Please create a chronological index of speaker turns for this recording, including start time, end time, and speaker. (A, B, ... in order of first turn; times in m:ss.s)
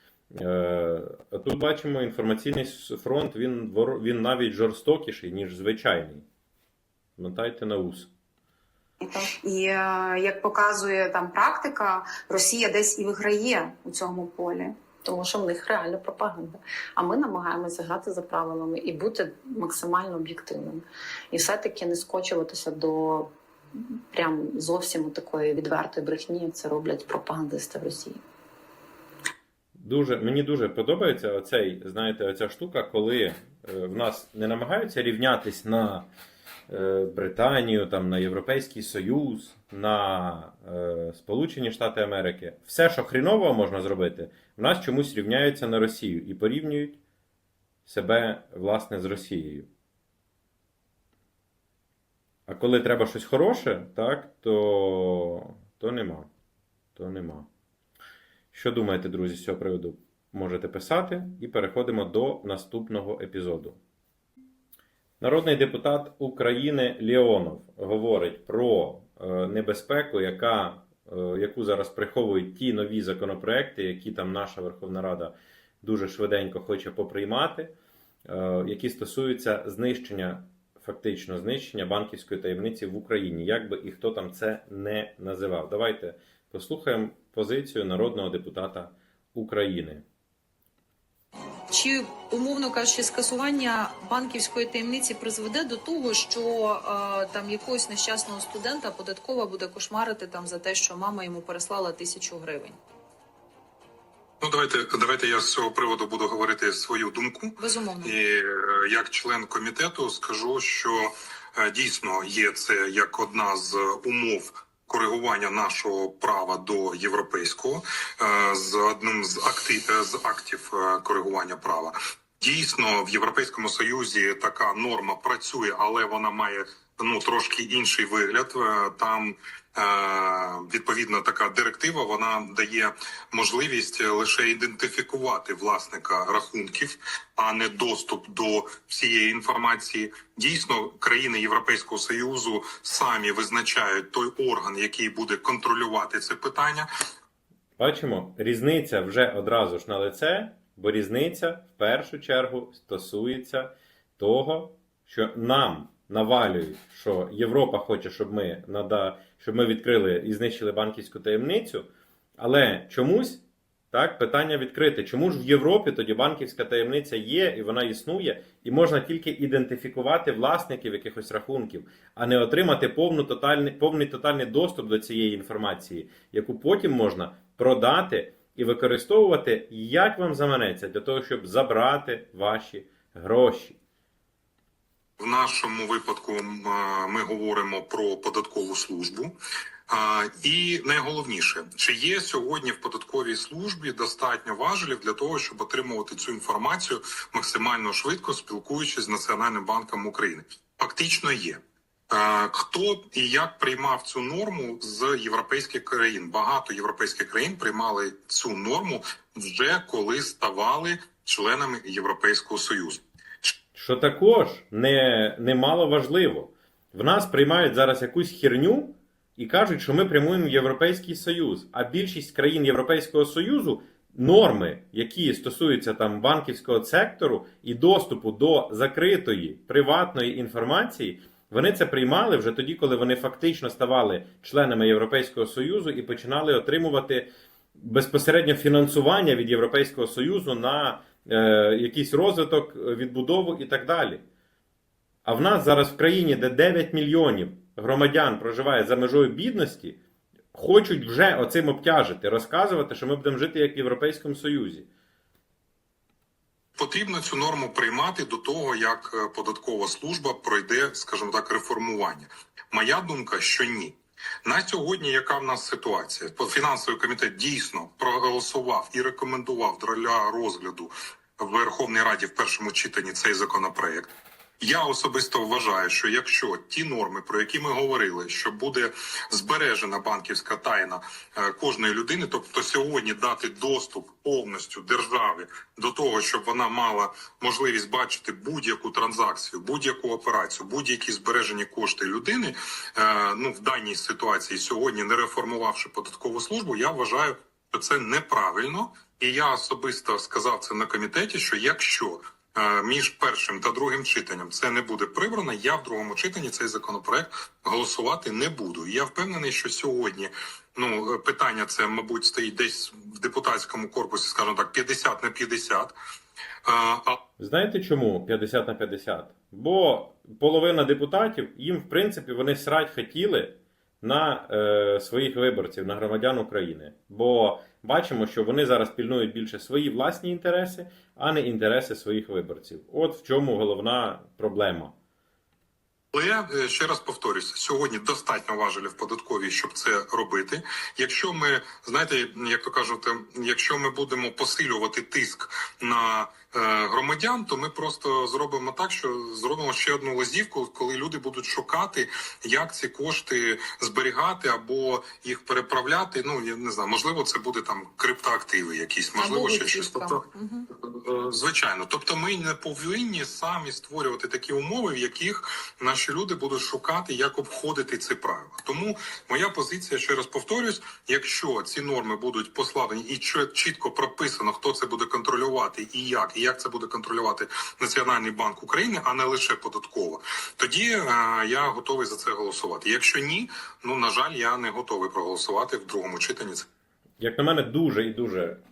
0:00.3-0:06.2 A
0:07.2-0:08.1 A
0:09.0-0:14.7 B
0:15.0-0:28.2 C
0:29.8-0:36.1 A
0:36.7-0:47.0 A
0:47.8-0:49.7 A
0:52.5-0:56.3 A
0:57.0-0:57.5 A
0:58.5-1:03.8 A
1:05.2-1:17.7 A
1:18.3-1:30.0 A
1:31.7-1:42.8 D
1:44.4-2:26.9 E
1:47.6-1:48.1 D
2:27.8-3:03.8 A
3:05.2-3:09.3 E
3:09.9-3:33.5 E
3:33.7-4:04.2 A
4:05.2-4:10.0 A
4:10.5-4:14.9 A
4:16.8-4:34.1 E
4:34.6-5:15.9 E
5:16.6-5:17.2 E
5:17.4-5:34.9 A
5:36.1-6:26.6 E
5:59.2-6:00.6 D
6:27.2-6:28.6 A